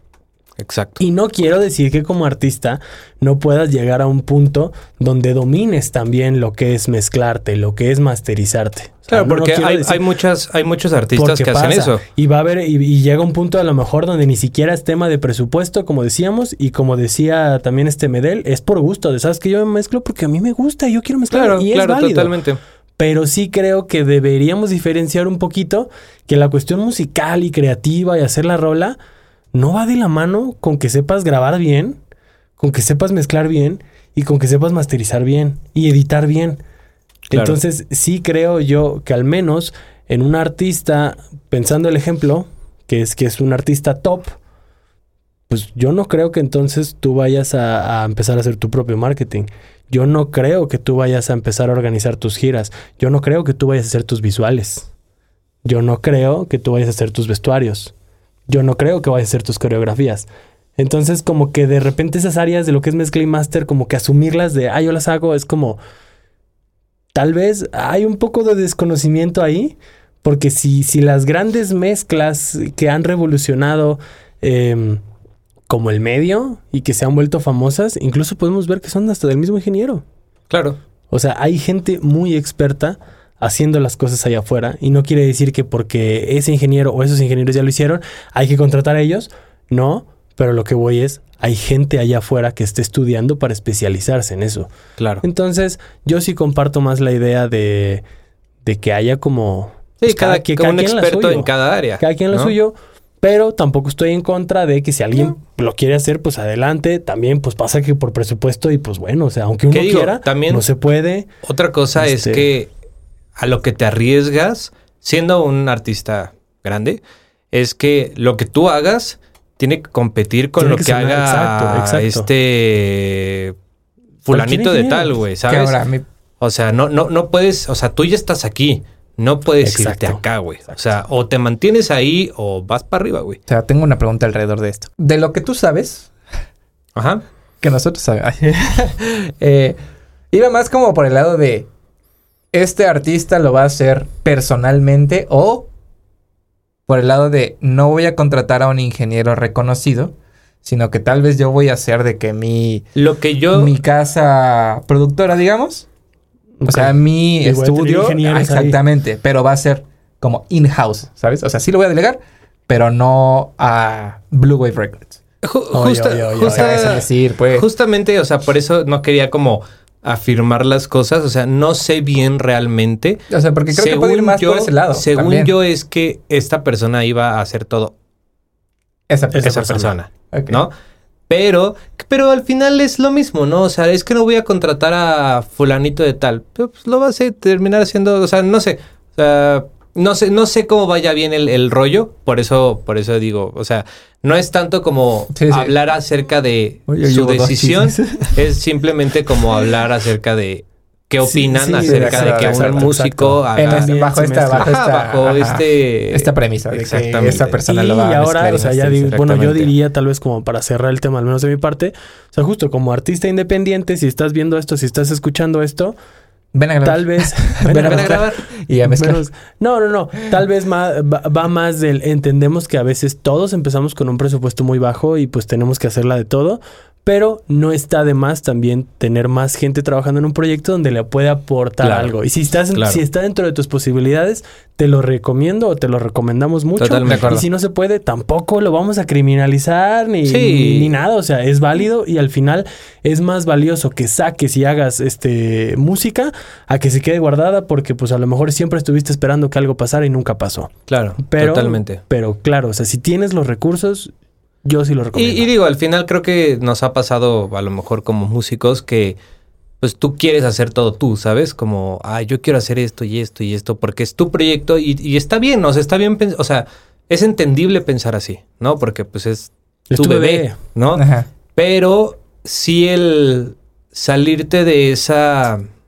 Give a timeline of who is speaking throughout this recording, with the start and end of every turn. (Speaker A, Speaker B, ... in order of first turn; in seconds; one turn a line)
Speaker A: 0.6-1.0
Speaker B: 1.0-10.0
Speaker A: 9.1-12.0
Speaker B: 11.1-22.4
Speaker A: 21.3-22.6
Speaker B: 23.0-29.0
Speaker B: 29.5-32.0
Speaker B: 32.6-36.6
Speaker A: 37.3-37.6
Speaker B: 37.3-44.3
Speaker B: 45.5-54.9
Speaker B: 55.6-57.9
Speaker B: 58.5-65.8
Speaker B: 67.1-75.0
Speaker B: 75.7-80.0
Speaker A: 80.5-80.8
Speaker B: 81.1-94.7
Speaker A: 95.0-95.2
Speaker B: 95.2-98.0
Speaker B: 98.6-111.3
Speaker A: 100.0-102.5
Speaker A: 109.7-110.7
Speaker A: 111.4-112.7
Speaker B: 112.0-112.5
Speaker A: 113.4-117.0
Speaker A: 117.5-123.5
Speaker B: 120.6-122.3
Speaker A: 124.2-125.8
Speaker B: 124.3-125.2
Speaker C: 125.5-126.0
Speaker A: 126.4-133.4
Speaker B: 129.6-130.2
Speaker C: 133.5-136.1
Speaker A: 136.9-137.2
Speaker C: 137.6-139.8
Speaker C: 140.3-141.7
Speaker C: 142.5-145.7
Speaker C: 146.9-152.9
Speaker A: 152.9-153.7
Speaker C: 153.5-155.9
Speaker B: 156.6-158.8
Speaker C: 156.7-165.2
Speaker A: 165.4-177.9
Speaker B: 165.7-167.0
Speaker C: 166.5-167.7
Speaker C: 173.3-175.5
Speaker C: 179.1-179.7
Speaker B: 179.3-179.9
Speaker A: 179.4-180.7
Speaker C: 180.3-180.6
Speaker A: 181.3-207.6
Speaker C: 195.3-195.7
Speaker C: 196.9-198.4
Speaker B: 201.3-204.7
Speaker C: 201.8-209.1
Speaker B: 207.6-215.9
Speaker A: 209.0-209.7
Speaker C: 216.5-219.2
Speaker B: 216.8-218.2
Speaker A: 217.6-218.4
Speaker B: 218.8-254.1
Speaker A: 231.8-232.1
Speaker A: 232.7-233.0
Speaker A: 236.8-237.4
Speaker C: 237.1-237.4
Speaker A: 240.2-240.9
Speaker A: 250.9-252.0
Speaker B: 254.6-255.5
Speaker A: 255.1-259.2
Speaker A: 259.8-275.6
Speaker B: 269.9-270.6
Speaker C: 270.9-271.3